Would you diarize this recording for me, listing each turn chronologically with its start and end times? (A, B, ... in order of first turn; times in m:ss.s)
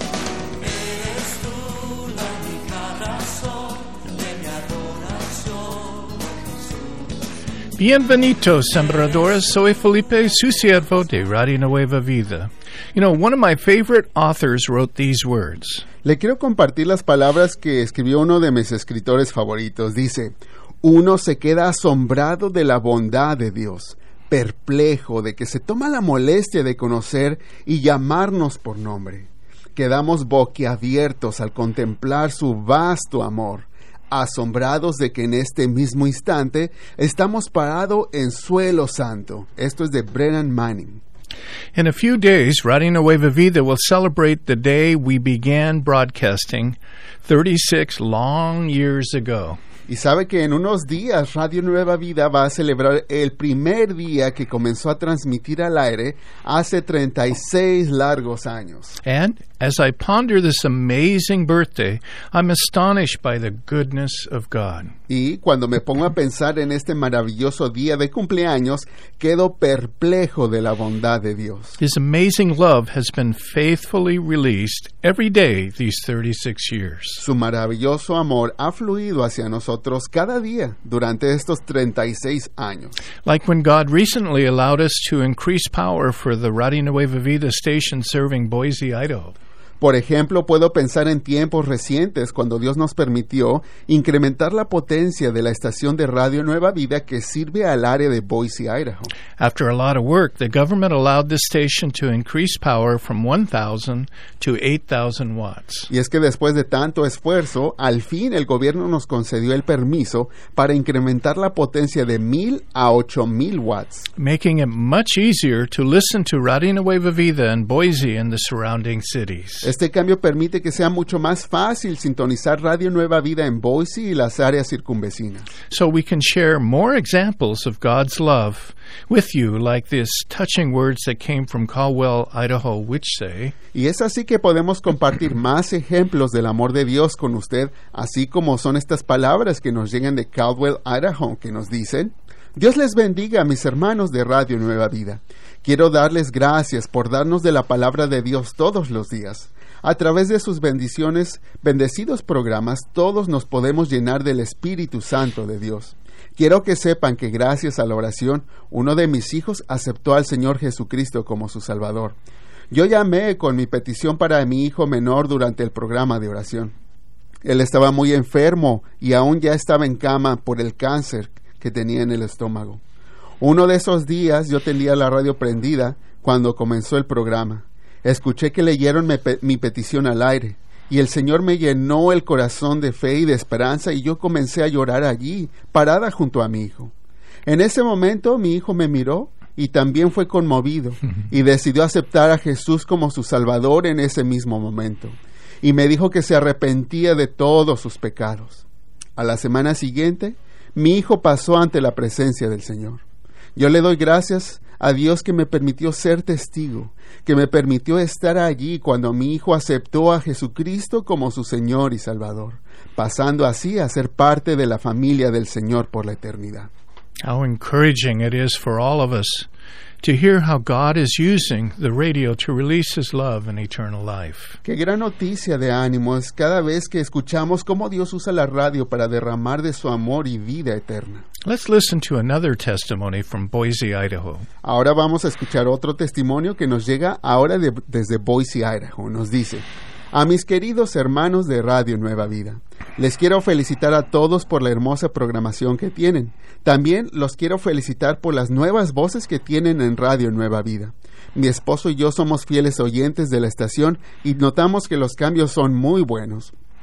0:00.8-0:06.1 A
0:07.8-0:15.9 B
0:16.0-0:41.0 C
0:41.7-0:49.6 B
0:49.9-0:59.0 C
0:59.0-1:04.9 B
1:05.1-1:11.8 C
1:11.8-1:17.2 B
1:17.2-1:23.0 C
1:23.2-1:29.4 B
1:29.8-1:39.1 C
1:39.4-1:45.9 B
1:45.9-1:54.1 C
1:54.2-1:59.7 B
1:59.6-2:05.5 C
2:05.7-2:13.5 B
2:13.7-2:42.2 C
2:42.7-2:46.8 C
2:47.4-2:52.8 C
2:53.4-3:06.9 C
3:07.5-3:18.6 C
3:19.2-3:23.0 C
3:23.6-3:36.7 C
3:37.2-3:39.5 B
3:40.0-3:44.6 B
3:44.6-3:51.2 C
3:51.4-3:54.5 B
3:54.6-4:16.5 C